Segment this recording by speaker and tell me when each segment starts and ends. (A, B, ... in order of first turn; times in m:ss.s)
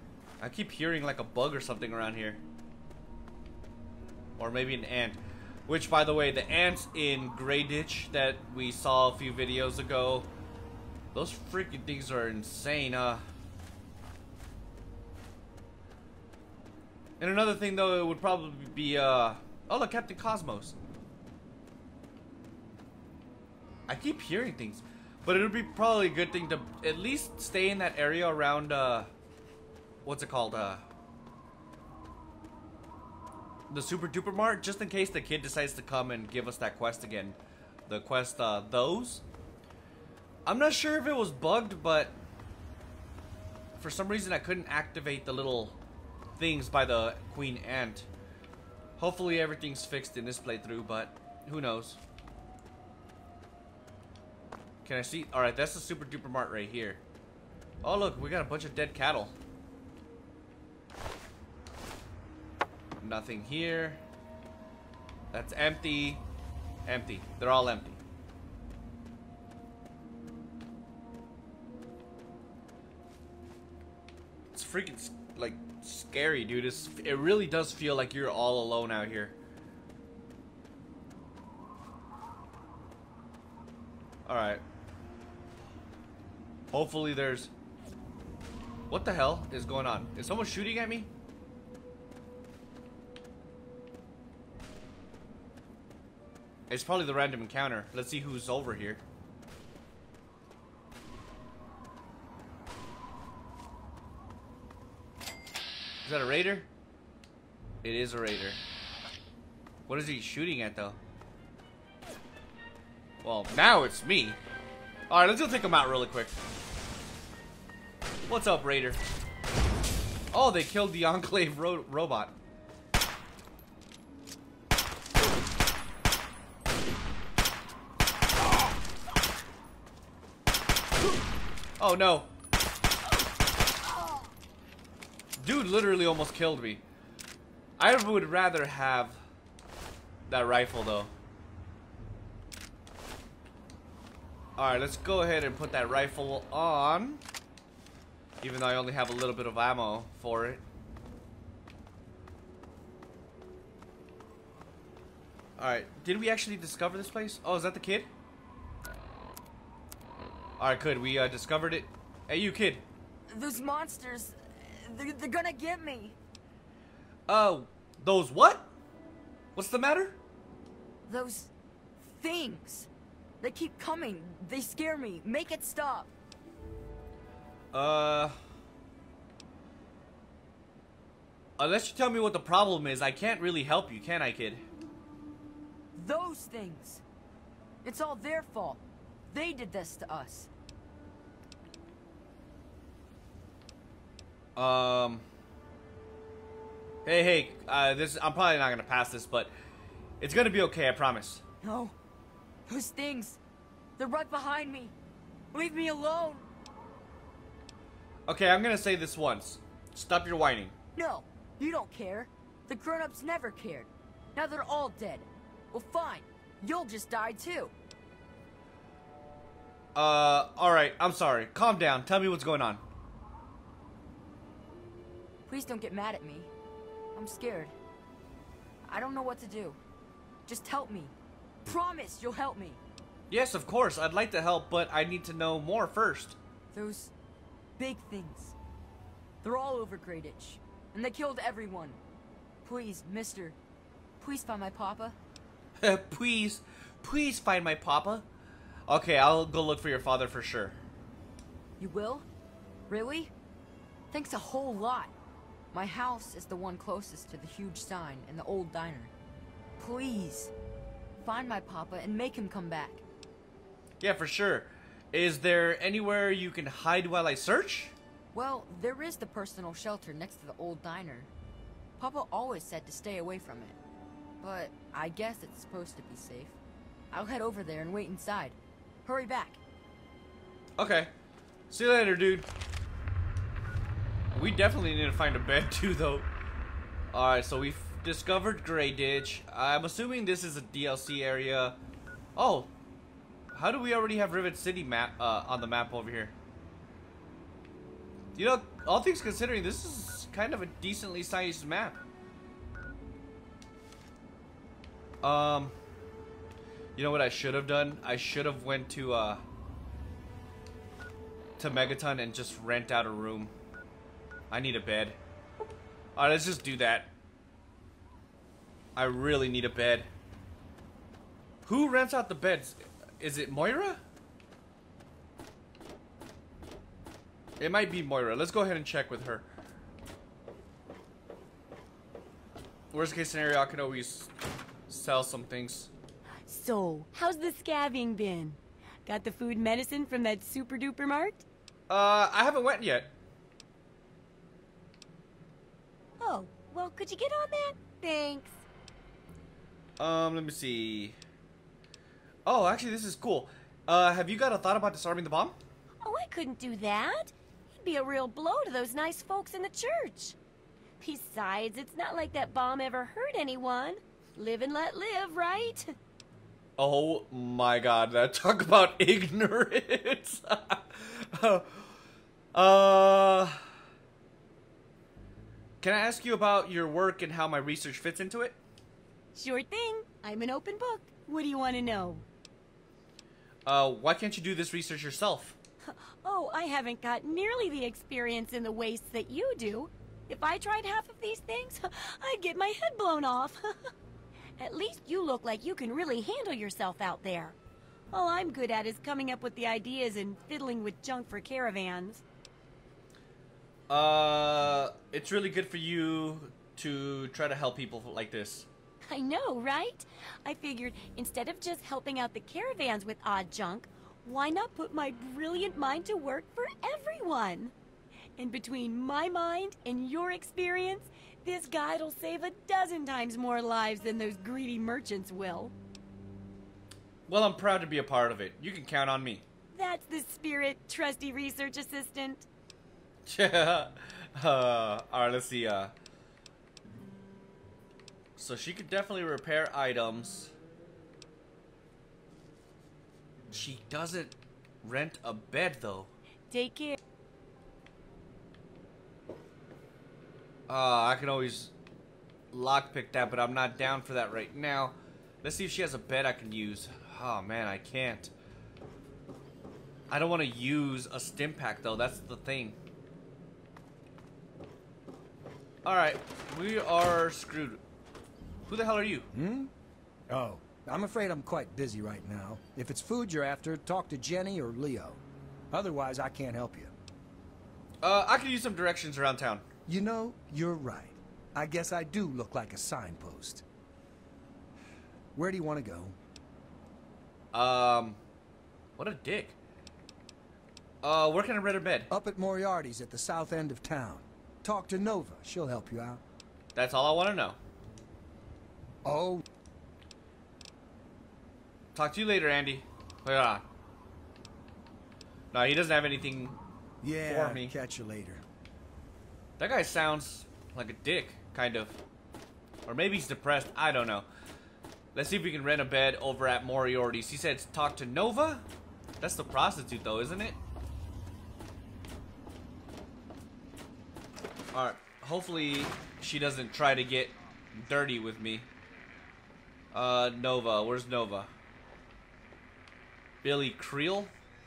0:00.4-0:02.4 A
0:04.4-0:10.3 A
0:11.1-0:13.2 A
0:17.2-0:20.8 A
0:23.9-0:29.1 A
0:30.0-0:30.8 A
0:33.7-0:39.2 A
0:40.4-0:42.2 A
0:43.8-0:45.8 A
0:46.4-0:48.1 A
0:49.0-0:52.0 A
0:54.8-0:57.0 A
0:57.8-0:59.4 A
1:03.0-1:04.0 A
1:05.3-1:06.2 A
1:06.9-1:08.0 A
1:14.5-1:19.4 A
1:24.3-1:24.6 A
1:26.7-1:27.5 A
1:28.9-1:31.1 A
1:36.7-1:39.0 A
1:46.0-1:46.7 A
1:47.8-1:48.6 A
1:49.9-1:51.0 A
1:53.2-1:54.4 A
1:55.1-1:56.4 A
1:58.3-1:59.0 A
2:00.3-2:02.4 A
2:11.8-2:12.3 A
2:15.4-2:16.8 A
2:17.8-2:19.2 A
2:20.3-2:21.1 A
2:24.6-2:27.2 A
2:28.4-2:30.6 A
2:35.6-2:38.1 A
2:40.6-2:42.8 A
2:43.3-2:46.2 B
2:47.3-2:48.7 A
2:49.6-2:50.2 A
2:51.1-2:52.9 B
2:53.4-2:56.1 B
2:57.7-2:58.4 A
3:01.6-3:04.6 A
3:06.0-3:07.0 B
3:07.8-3:08.8 B
3:09.3-3:10.5 B
3:14.6-3:15.2 A
3:17.0-3:19.5 A
3:20.2-3:21.4 A
3:21.6-3:22.0 B
3:22.7-3:23.4 B
3:24.0-3:24.9 B
3:25.5-3:26.4 B
3:28.3-3:30.7 A
3:31.0-3:37.7 B
3:40.0-3:42.8 A
3:45.5-3:46.5 B
3:47.1-3:47.7 B
3:48.9-3:49.8 B
3:50.4-3:51.1 B
3:51.6-3:52.8 B
3:53.3-3:56.4 A
3:56.7-3:57.1 B
3:57.8-3:58.5 B
3:59.4-4:02.0 B
4:02.6-4:03.6 B
4:04.2-4:05.2 B
4:05.8-4:08.3 A
4:08.9-4:10.8 A
4:11.8-4:12.3 B
4:12.9-4:13.3 B
4:14.1-4:15.1 B
4:15.7-4:19.1 B
4:19.8-4:20.5 B
4:21.2-4:23.0 B
4:24.0-4:28.0 A
4:28.3-4:31.3 B
4:32.0-4:33.8 B
4:34.4-4:36.6 B
4:37.1-4:39.6 B
4:40.8-4:41.1 A
4:41.7-4:42.5 A
4:44.3-4:46.3 A
4:47.1-4:51.8 A
4:52.4-4:52.7 A
4:53.5-4:56.4 A
4:58.4-5:02.0 A
5:05.2-5:05.7 A
5:07.0-5:09.4 A
5:11.6-5:13.5 A
5:14.5-5:15.2 A
5:16.2-5:17.1 A
5:19.0-5:20.1 A
5:21.6-5:24.0 A
5:27.6-5:29.4 A
5:32.9-5:34.3 A
5:34.9-5:35.9 A
5:36.4-5:41.4 C
5:41.9-5:43.1 A
5:46.2-5:48.6 C
5:50.0-5:51.2 A
5:52.4-5:55.6 A
5:56.0-6:00.4 C
6:01.0-6:05.9 C
6:06.8-6:11.9 A
6:12.5-6:13.6 A
6:15.8-6:18.6 A
6:19.4-6:22.3 C
6:23.7-6:25.6 A
6:25.9-6:33.7 C
6:34.6-6:37.6 C
6:38.1-6:42.2 C
6:43.9-6:48.7 A
6:49.1-6:57.7 C
6:58.4-7:05.7 C
7:07.3-7:09.4 A
7:09.7-7:12.4 C
7:13.3-7:15.9 A
7:18.4-7:20.5 A
7:23.5-7:26.1 A
7:26.5-7:27.0 C
7:30.7-7:31.7 A
7:32.5-7:38.3 A
7:40.1-7:42.8 A
7:45.8-7:47.8 A
7:48.7-7:49.3 A
7:49.3-7:49.7 D
7:50.3-7:55.2 D
7:55.7-7:56.9 D
7:58.0-7:59.6 A
7:59.9-8:03.6 D
8:05.4-8:06.2 D
8:07.5-8:08.2 A
8:09.0-8:09.6 A
8:11.0-8:12.1 A
8:12.1-8:16.2 D
8:16.7-8:17.6 A
8:19.0-8:19.4 D
8:22.0-8:23.6 A
8:25.5-8:26.6 A
8:27.0-8:28.4 D
8:27.2-8:27.7 A
8:29.6-8:32.0 A
8:32.9-8:34.3 A
8:35.1-8:38.6 A
8:39.2-8:40.6 A
8:44.7-8:48.7 A
8:49.9-8:51.5 A
8:53.4-8:54.3 A